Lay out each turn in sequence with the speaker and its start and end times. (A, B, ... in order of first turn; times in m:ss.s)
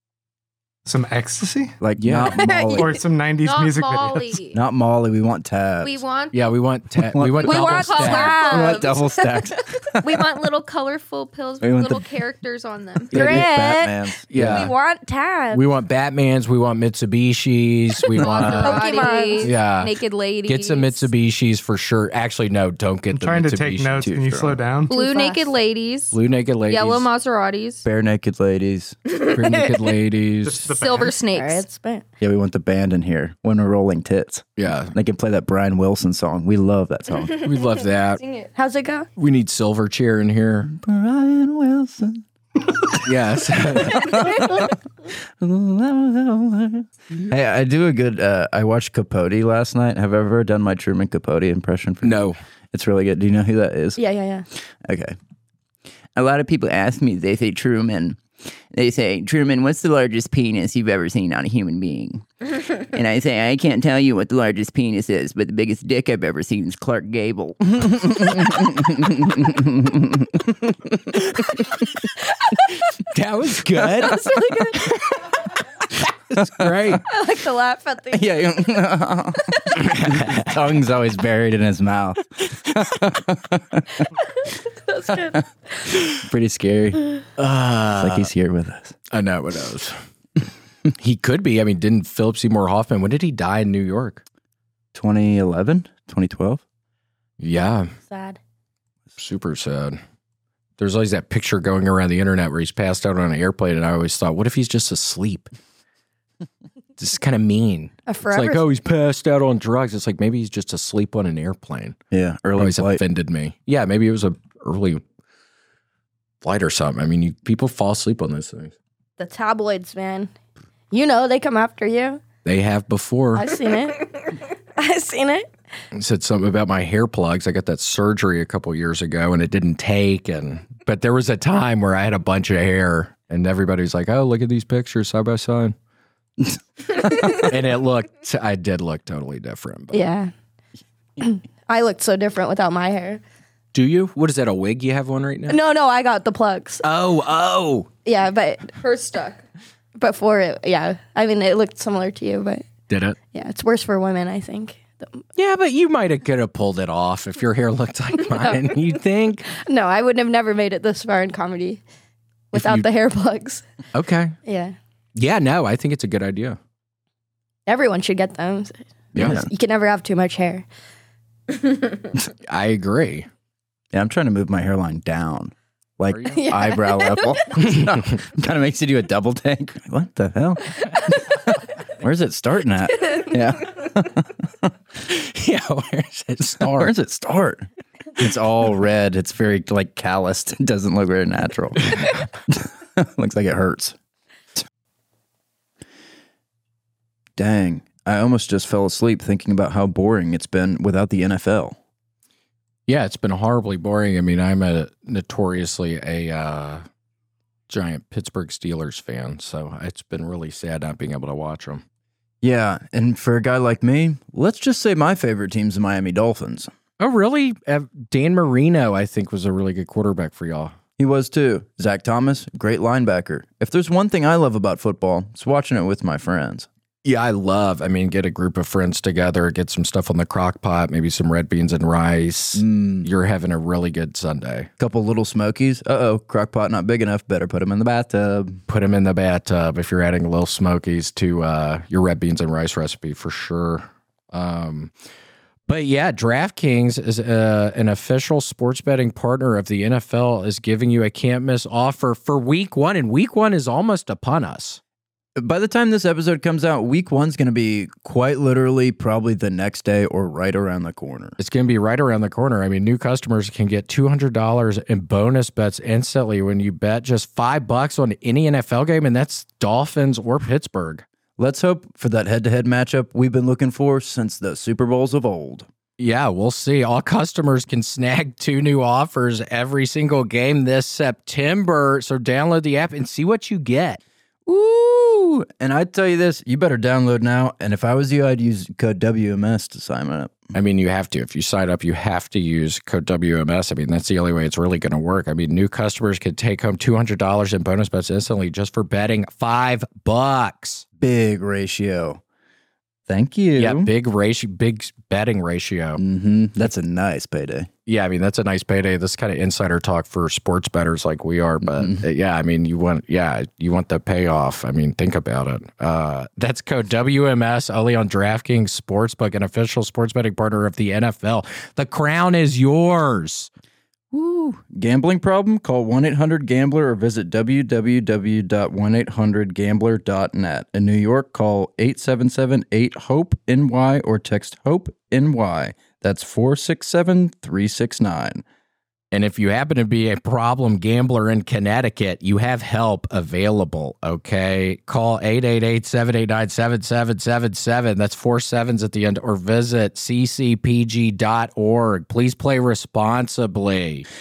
0:00.8-0:01.8 A
0:01.8-0:03.0 B
0:02.0-0:02.4 C
0:02.3-0:03.0 D
0:02.8-0:04.4 A
0:03.4-0:04.6 E
0:04.5-0:06.0 B
0:05.8-0:06.4 E
0:06.3-0:08.5 C
0:07.0-0:07.6 B
0:07.4-0:09.0 D
0:07.5-0:13.1 E
0:08.4-0:10.2 B
0:11.6-0:12.0 B
0:13.1-0:14.7 B
0:13.1-0:15.6 D
0:14.3-0:14.7 C
0:15.5-0:19.9 C
0:18.1-0:21.1 E
0:18.3-0:19.5 D
0:20.4-0:24.3 C
0:23.1-0:24.9 A
0:24.0-0:24.6 B
0:24.9-0:25.5 D
0:24.9-0:27.8 E
0:26.1-0:27.1 C
0:27.8-0:29.0 B
0:29.3-0:30.7 C
0:30.4-0:31.1 A
0:30.7-0:31.6 E
0:31.3-0:32.0 D
0:32.2-0:37.5 B
0:34.6-0:34.9 C
0:37.2-0:38.5 E
0:37.4-0:38.2 C
0:38.6-0:39.1 D
0:39.2-0:40.7 C
0:40.7-0:42.2 B
0:43.0-0:44.4 C
0:43.8-0:44.7 B
0:45.4-0:54.0 B
0:52.0-0:52.4 C
0:54.0-0:54.5 D
0:54.8-0:55.2 B
0:56.1-1:11.8 B
1:12.9-1:15.2 C
1:13.8-1:14.0 B
1:14.0-1:15.0 D
1:16.0-1:17.1 C
1:16.4-1:17.0 B
1:17.1-1:18.5 D
1:18.1-1:24.1 B
1:19.7-1:20.6 C
1:24.8-1:25.4 D
1:26.1-1:27.0 B
1:27.4-1:28.3 C
1:28.0-1:29.0 B
1:29.1-1:30.0 C
1:30.9-1:34.2 C
1:34.9-1:36.6 B
1:37.4-1:37.9 C
1:38.0-1:38.4 D
1:39.2-1:40.0 C
1:40.8-1:45.5 C
1:47.0-1:52.0 C
1:48.1-1:48.6 D
1:52.1-1:53.0 B
1:52.6-1:55.0 C
1:56.4-1:58.7 C
1:59.2-2:00.3 D
2:00.9-2:02.2 D
2:02.4-2:03.5 C
2:03.3-2:04.1 D
2:04.8-2:05.5 D
2:05.9-2:15.7 C
2:17.0-2:20.0 C
2:19.9-2:20.3 D
2:21.2-2:23.2 D
2:23.7-2:25.6 C
2:25.5-2:26.8 D
2:26.8-2:27.9 C
2:28.0-2:28.7 D
2:28.8-2:29.4 E
2:30.0-2:32.7 D
2:32.9-2:33.2 C
2:33.3-2:35.2 D
2:35.4-2:39.5 C
2:38.2-2:38.7 D
2:39.5-2:41.8 D
2:42.5-2:43.6 D
2:42.5-2:42.9 C
2:43.9-2:44.3 C
2:44.4-2:44.7 D
2:45.2-2:46.6 C
2:47.7-2:50.6 D
2:49.1-2:49.4 C
2:49.1-2:49.5 B
2:52.5-2:53.3 C
2:53.9-3:04.7 B
2:56.1-2:56.4 C
2:56.3-2:57.3 D
3:05.0-3:06.9 C
3:06.5-3:14.0 B
3:17.4-3:21.8 B
3:22.9-3:26.8 C
3:27.7-3:31.8 C
3:32.4-3:36.7 B
3:37.0-3:40.8 C
3:41.0-3:46.7 B
3:47.0-3:54.7 C
3:52.5-3:53.1 B
3:54.8-3:58.6 B
3:58.7-4:04.9 C
4:05.7-4:14.8 C
4:15.4-4:21.4 B
4:21.4-4:31.0 C
4:31.4-4:35.7 B
4:36.0-4:44.0 C
4:44.4-4:50.5 B
4:50.5-5:00.8 C
5:01.0-5:02.2 B
5:03.1-5:03.9 B
5:03.6-5:06.0 C
5:06.0-5:07.7 B
5:07.8-5:23.5 C
5:11.6-5:12.0 B
5:24.1-5:38.4 B
5:39.1-5:54.0 C